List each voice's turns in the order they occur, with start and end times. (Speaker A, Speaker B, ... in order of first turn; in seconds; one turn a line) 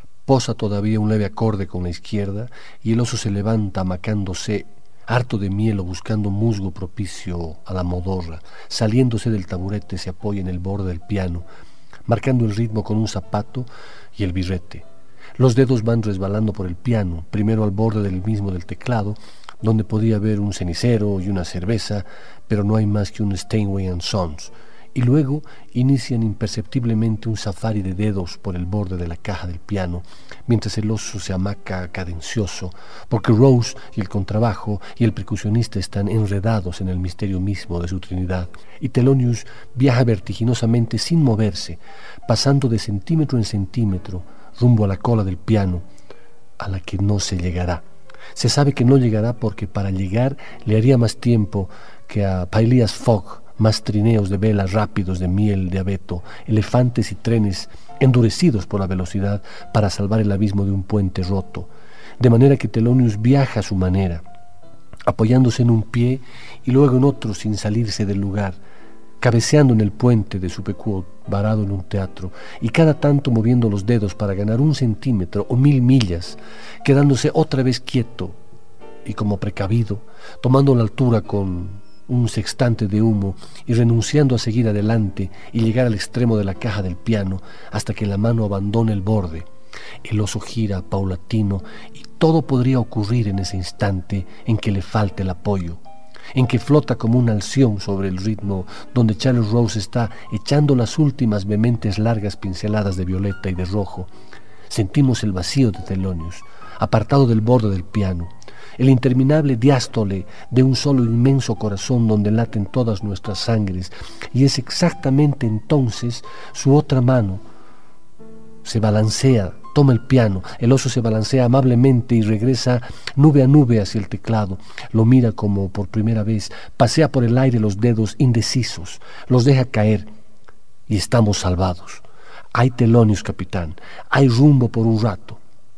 Speaker A: 0.2-11.4
Speaker A: 12.1-14.8
Speaker A: 15.4-45.9
Speaker A: 46.6-47.8
Speaker A: 48.3-64.2
Speaker A: 65.0-68.6
Speaker A: 69.2-78.4
Speaker A: 79.0-89.5
Speaker A: 90.0-95.8
Speaker A: 96.3-104.1
Speaker A: 104.7-117.4
Speaker A: 118.6-130.1
Speaker A: 130.9-135.4